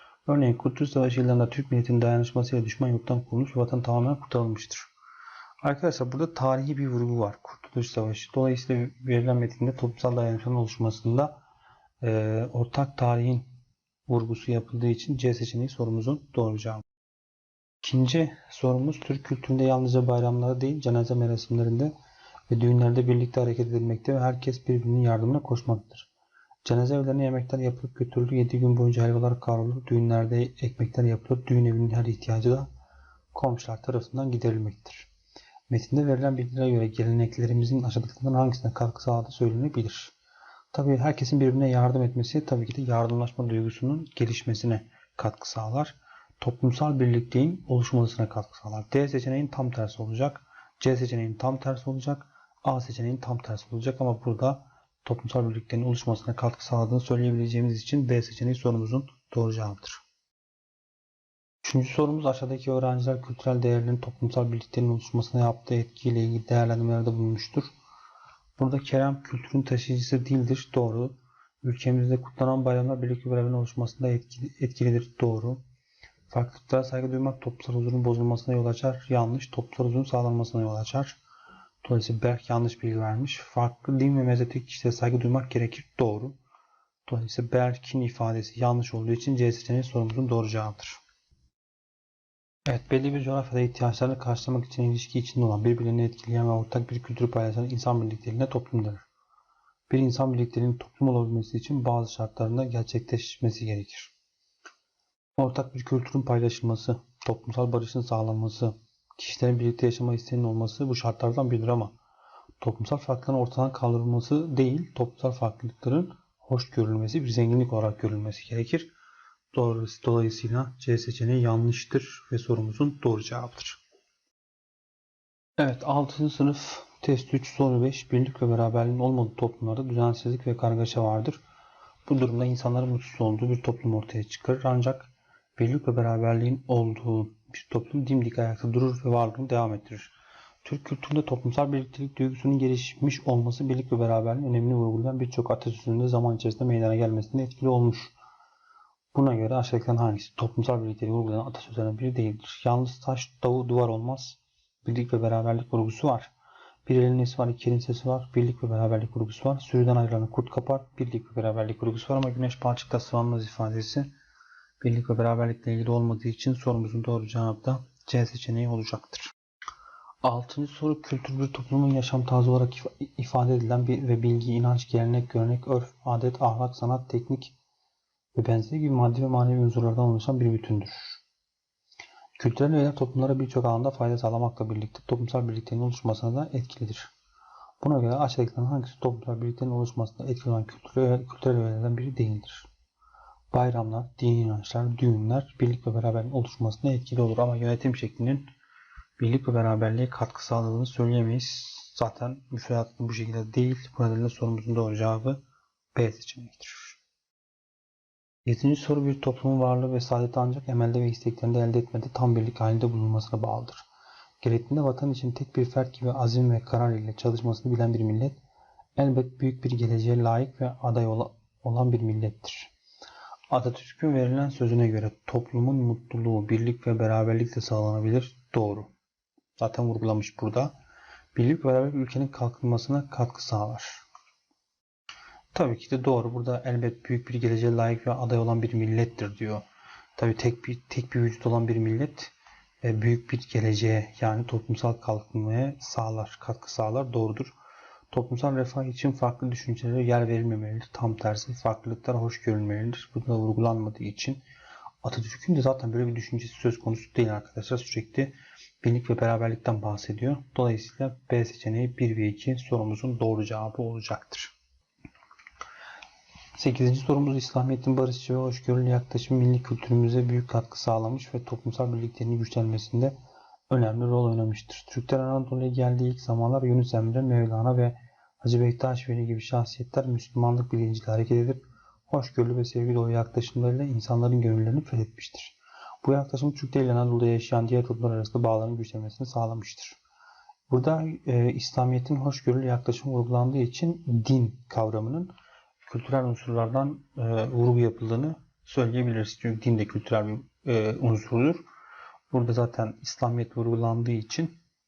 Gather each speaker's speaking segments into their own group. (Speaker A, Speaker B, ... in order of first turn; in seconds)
Speaker A: 0.2-4.9, 5.6-11.4, 12.0-13.5, 14.1-16.8, 17.8-21.9, 22.5-26.1, 26.6-32.7, 33.3-35.1, 35.7-40.1, 40.7-60.0, 61.6-67.7, 68.6-75.6, 76.3-81.2, 81.8-86.4, 87.0-91.0, 92.7-99.0, 99.9-104.1, 105.4-111.9, 112.6-118.9, 119.5-123.8, 125.6-131.4, 132.1-140.1, 140.6-148.1, 149.1-156.3, 156.8-164.1, 164.8-169.3, 170.2-177.6, 178.3-181.2, 182.4-187.1, 187.8-192.7, 193.5-198.5, 199.2-205.4, 205.9-207.0, 208.4-213.8, 214.4-218.4, 218.9-222.7, 223.5-228.9, 229.6-230.7, 231.3-234.0, 235.5-239.6, 240.2-247.5, 248.1-254.4, 255.0-264.5, 266.6-273.1, 273.7-290.0, 290.7-295.3, 295.9-301.6, 302.3-304.6